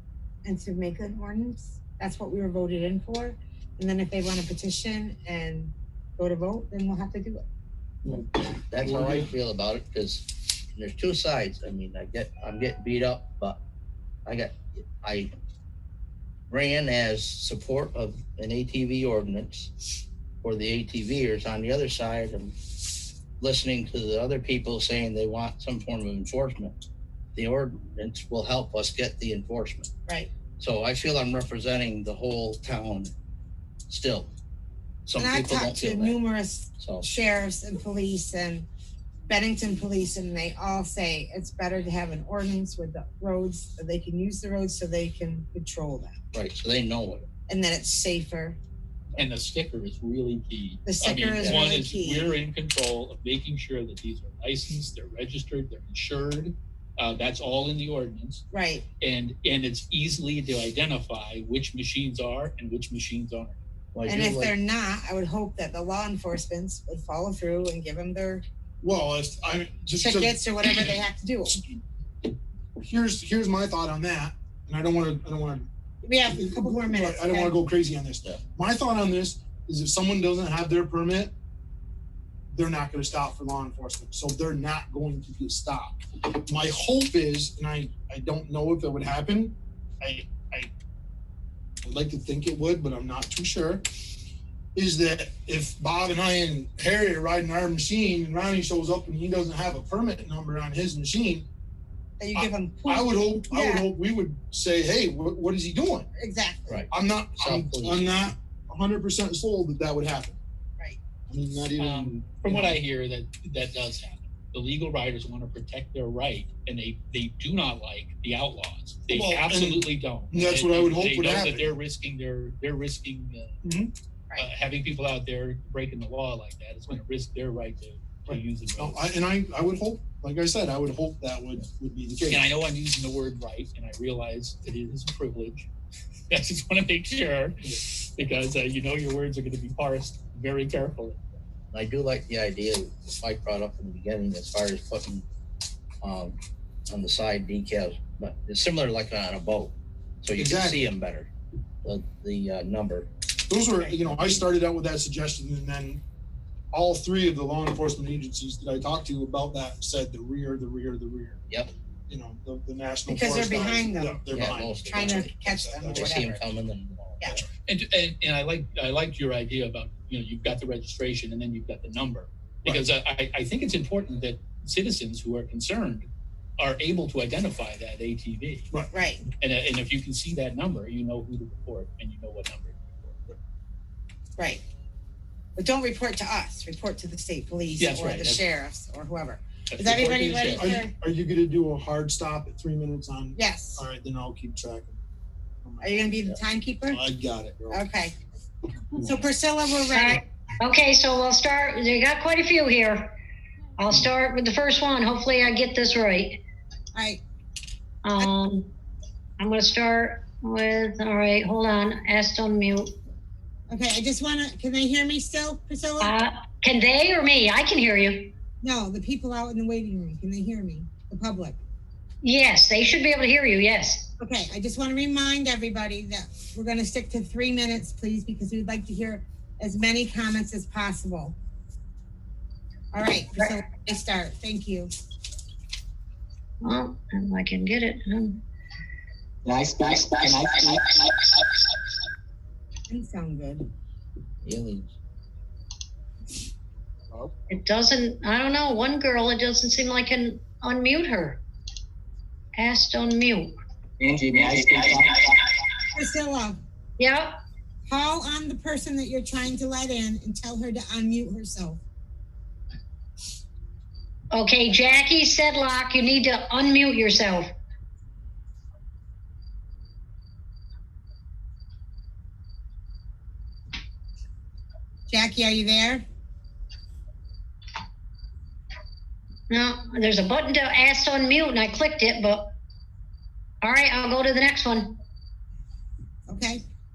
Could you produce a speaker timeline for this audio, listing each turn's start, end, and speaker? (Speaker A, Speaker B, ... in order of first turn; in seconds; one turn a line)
Speaker A: 0.4-7.4
Speaker B: 8.1-13.6
Speaker B: 14.3-15.3
Speaker B: 16.5-22.6
Speaker B: 23.4-26.8
Speaker B: 27.4-29.9
Speaker B: 30.6-33.1
Speaker B: 33.9-34.3
Speaker B: 35.1-36.2
Speaker A: 35.2-38.7
Speaker B: 36.8-37.2
Speaker A: 39.3-46.2
Speaker B: 46.3-47.3
Speaker A: 47.5-48.6
Speaker C: 49.2-58.4
Speaker A: 50.9-52.3
Speaker A: 58.5-58.9
Speaker C: 59.0-63.6
Speaker B: 63.9-64.5
Speaker A: 64.1-68.4
Speaker D: 68.8-70.9
Speaker A: 70.0-71.6
Speaker D: 72.8-75.7
Speaker A: 76.0-77.5
Speaker D: 76.2-81.3
Speaker D: 82.5-90.7
Speaker D: 91.8-93.9
Speaker D: 94.8-101.5
Speaker A: 102.2-103.9
Speaker D: 102.3-106.1
Speaker A: 106.2-106.9
Speaker B: 106.7-108.3
Speaker D: 106.9-110.4
Speaker D: 111.3-112.8
Speaker C: 111.8-123.6
Speaker D: 119.1-121.7
Speaker D: 123.6-123.9
Speaker C: 124.4-129.0
Speaker D: 128.3-132.5
Speaker C: 132.3-135.7
Speaker C: 136.3-141.4
Speaker B: 141.7-145.2
Speaker B: 146.0-146.4
Speaker B: 146.9-151.3
Speaker D: 150.4-150.8
Speaker B: 151.8-153.1
Speaker D: 153.5-156.0
Speaker B: 154.1-154.4
Speaker D: 156.7-161.4
Speaker D: 162.1-166.2
Speaker A: 163.1-164.2
Speaker B: 164.3-167.4
Speaker A: 164.8-166.4
Speaker C: 167.7-176.1
Speaker C: 176.6-178.7
Speaker A: 178.9-179.2
Speaker C: 179.4-183.2
Speaker A: 184.4-184.6
Speaker A: 185.6-190.9
Speaker C: 187.8-188.4
Speaker C: 189.7-190.8
Speaker D: 190.0-195.0
Speaker A: 193.3-193.8
Speaker D: 195.6-196.3
Speaker A: 195.8-197.0
Speaker D: 196.9-197.8
Speaker A: 197.7-198.1
Speaker A: 198.9-200.2
Speaker E: 199.9-203.2
Speaker E: 203.8-206.4
Speaker A: 206.9-207.2
Speaker E: 208.0-208.7
Speaker E: 209.4-213.0
Speaker A: 213.7-216.2
Speaker E: 216.0-218.3
Speaker A: 218.6-221.6
Speaker E: 222.2-224.1
Speaker A: 224.2-231.4
Speaker A: 232.9-234.9
Speaker E: 236.6-238.4
Speaker F: 239.4-241.2
Speaker A: 242.9-243.7
Speaker B: 244.4-244.9
Speaker E: 247.5-251.4
Speaker E: 252.5-253.6
Speaker F: 254.0-255.5
Speaker A: 255.9-256.6
Speaker E: 257.0-257.4
Speaker A: 257.9-261.8
Speaker E: 264.3-267.5
Speaker A: 275.1-276.0
Speaker E: 279.5-282.5
Speaker E: 283.6-285.0
Speaker A: 286.3-286.6